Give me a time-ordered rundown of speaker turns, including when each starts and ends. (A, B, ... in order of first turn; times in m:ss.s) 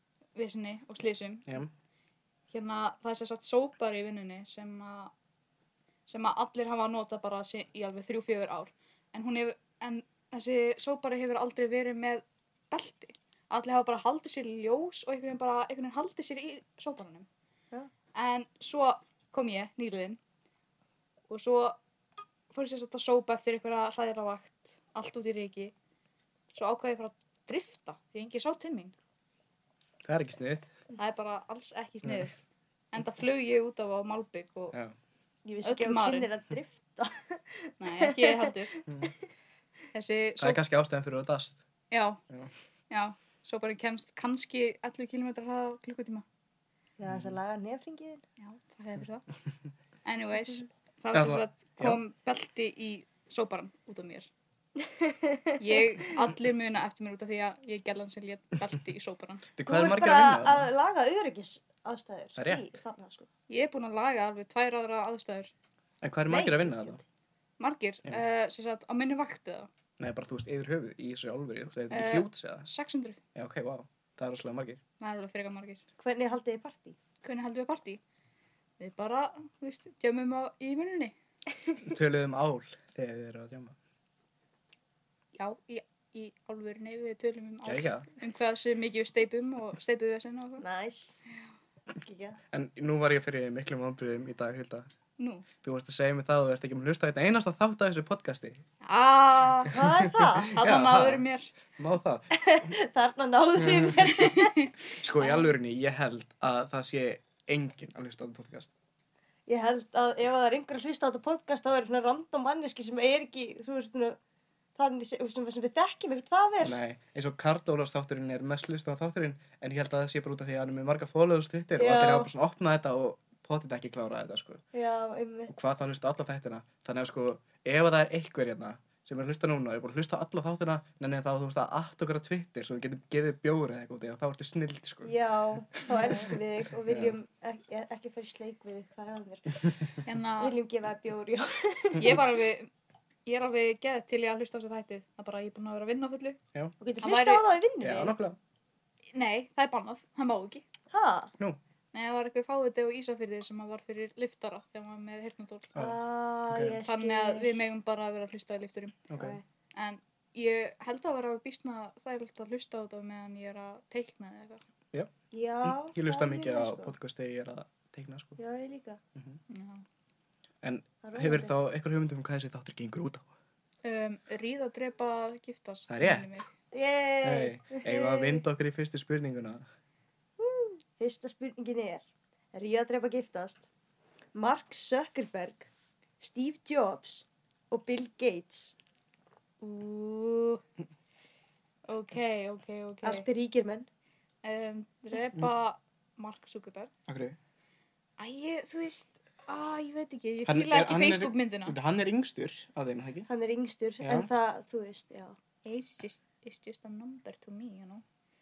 0:00.4-0:01.6 A
0:02.5-0:05.1 A
0:06.1-0:17.3 A
0:18.1-0:20.2 A
0:21.3-0:21.8 A
0:22.5-0:25.7 A
0:26.5-0:28.9 A
0:30.0-0:30.7 B
0:30.9-0:34.8 A
0:32.0-0:32.3 B
0:35.4-0:38.8 C
0:35.6-0:36.3 A
0:37.8-0:38.8 A
0:38.9-0:39.1 B
0:39.9-0:40.6 A
0:40.4-0:41.6 B
0:41.9-0:42.2 A
0:42.9-0:46.2 A
0:47.0-0:48.2 C
0:47.1-0:47.4 B
0:48.4-0:49.2 A
0:50.0-0:54.3 A
0:51.1-0:52.0 B
0:54.8-0:55.6 C
0:55.6-0:59.4 A
0:59.6-1:00.7 B
0:59.6-1:03.3 C
1:02.4-1:02.6 B
1:03.5-1:05.5 A
1:06.0-1:07.0 B
1:06.3-1:07.0 C
1:07.6-1:09.7 A
1:10.0-1:12.7 B
1:11.9-1:13.2 A
1:13.3-1:14.8 B
1:15.0-1:15.8 A
1:16.0-1:17.0 C
1:17.2-1:18.0 A
1:18.8-1:21.1 A
1:21.9-1:23.8 B
1:25.3-1:30.6 A
1:27.6-1:28.1 B
1:30.6-1:31.2 C
1:32.0-1:32.4 C
1:32.5-1:34.9 B
1:35.2-1:35.4 A
1:35.6-1:38.6 B
1:38.8-1:39.8 A
1:39.6-1:40.5 C
1:39.7-1:42.7 B
1:40.5-1:41.5 A
1:42.4-1:44.6 C
1:43.6-1:44.1 B
1:44.2-1:45.4 A
1:45.0-1:48.7 B
1:49.5-1:54.2 C
1:54.8-1:56.8 C
1:56.6-2:04.6 B
2:01.8-2:02.3 C
2:04.7-2:05.5 C
2:05.5-2:15.1 B
2:15.0-2:19.7 C
2:15.7-2:17.2 B
2:20.0-2:20.5 A
2:20.4-2:22.2 C
2:21.9-2:22.7 A
2:23.2-2:26.4 A
2:26.8-2:28.1 C
2:27.0-2:27.4 A
2:27.8-2:28.4 B
2:29.1-2:30.6 A
2:30.9-2:31.3 C
2:31.9-2:35.7 A
2:35.7-2:36.8 B
2:35.8-2:37.6 C
2:36.8-2:39.0 A
2:39.1-2:39.4 B
2:39.1-2:39.4 C
2:39.7-2:44.6 A
2:45.3-2:46.9 C
2:45.6-2:48.4 B
2:48.4-2:49.0 C
2:49.5-2:49.8 A
2:50.6-2:53.3 B
2:51.0-2:51.5 C
2:53.8-2:56.5 A
2:55.9-2:56.4 B
2:56.7-2:58.4 C
2:57.2-2:59.6 B
3:00.4-3:02.0 C
3:02.5-3:03.6 C
3:04.3-3:05.7 C
3:06.2-3:08.8 C
3:09.6-3:10.6 A
3:11.9-3:13.3 A
3:13.0-3:13.9 C
3:14.4-3:16.9 A
3:17.1-3:17.4 B
3:18.2-3:21.8 A
3:20.4-3:23.3 B
3:23.3-3:25.4 C
3:24.0-3:24.3 B
3:25.6-3:28.0 A